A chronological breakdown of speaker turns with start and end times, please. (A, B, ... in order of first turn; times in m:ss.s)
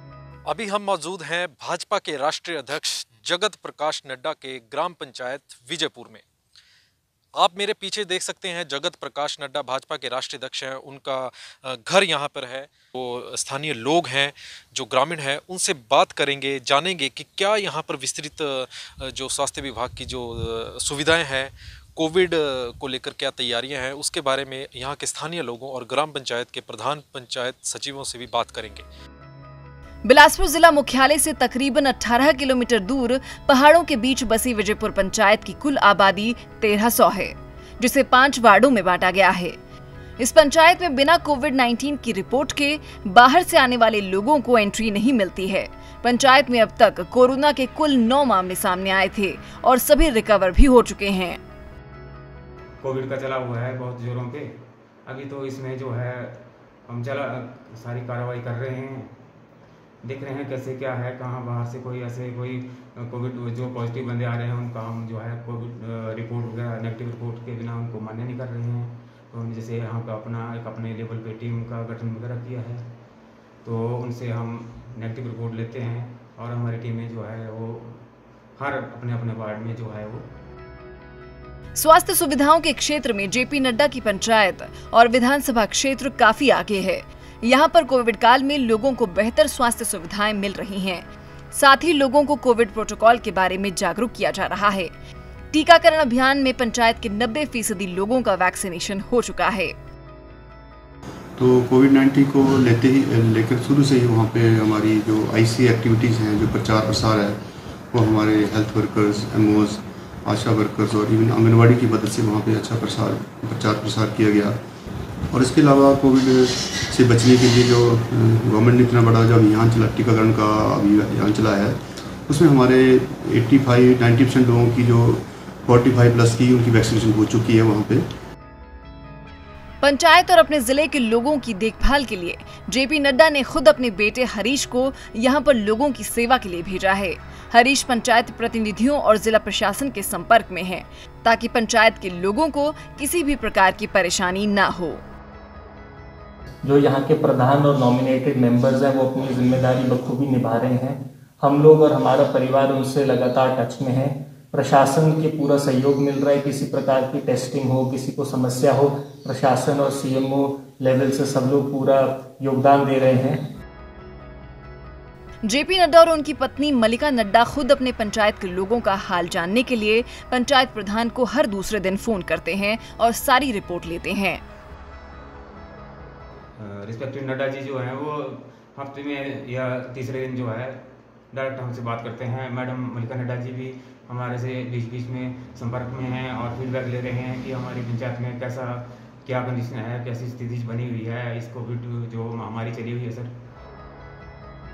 0:00.5-0:06.2 A
0:07.4-0:28.9 A
0:30.0-0:39.6 B
0:40.2-0:51.4 B
0:52.8-0:54.6 C
0:55.1-0:59.1 C
1:00.0-1:12.8 C
1:13.6-1:18.0 C
1:18.6-1:20.3 C
1:21.8-1:34.9 B
1:35.5-1:39.7 B
1:41.4-1:47.4 D
1:47.9-1:54.6 D
1:55.3-2:08.1 D
2:09.8-2:25.0 B
2:26.6-2:43.4 E
2:45.4-2:54.4 B
2:56.6-3:13.3 C